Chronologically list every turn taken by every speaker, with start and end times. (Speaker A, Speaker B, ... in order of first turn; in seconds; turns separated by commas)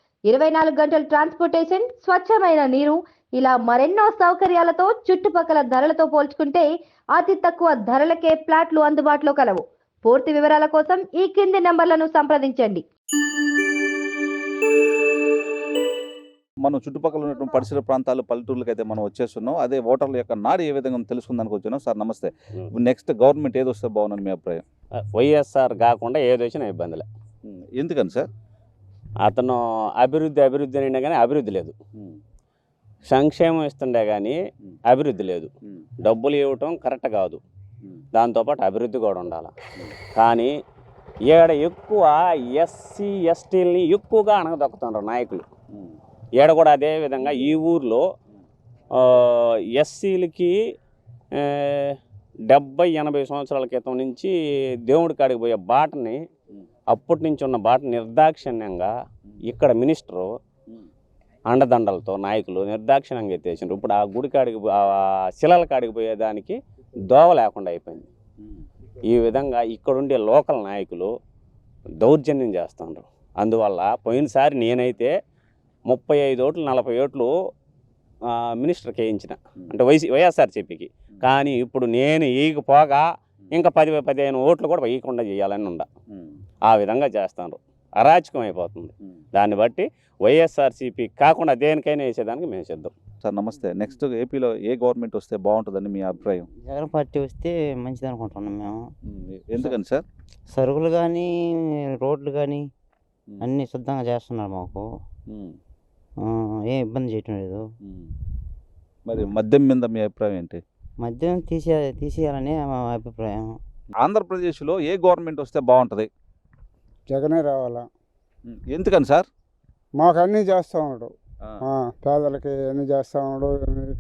Speaker A: 0.3-12.8, Speaker B: 16.6-24.6, Speaker C: 25.0-27.1, Speaker B: 27.4-28.3, Speaker C: 29.2-31.8, Speaker C: 33.1-34.4, Speaker C: 34.9-35.5, Speaker C: 36.0-37.4, Speaker C: 38.2-39.5, Speaker C: 40.1-40.5, Speaker C: 41.3-45.5, Speaker C: 46.4-48.0, Speaker C: 49.0-50.6, Speaker C: 51.4-52.0, Speaker C: 52.5-54.3, Speaker C: 54.9-56.2, Speaker C: 56.9-58.9, Speaker C: 59.5-60.3, Speaker C: 61.5-68.1, Speaker C: 69.1-71.1, Speaker C: 72.0-75.1, Speaker C: 75.9-77.3, Speaker C: 78.3-85.9, Speaker C: 86.7-92.9, Speaker B: 93.2-96.5, Speaker D: 96.6-98.8, Speaker B: 99.1-100.0, Speaker D: 100.5-101.3, Speaker D: 101.9-102.6, Speaker D: 103.5-104.9, Speaker B: 105.3-105.6, Speaker D: 106.2-107.6, Speaker B: 107.9-108.1, Speaker B: 109.1-110.6, Speaker D: 111.0-113.5, Speaker B: 114.0-116.1, Speaker E: 117.1-117.9, Speaker B: 118.5-119.3, Speaker E: 120.0-121.1, Speaker E: 121.6-123.9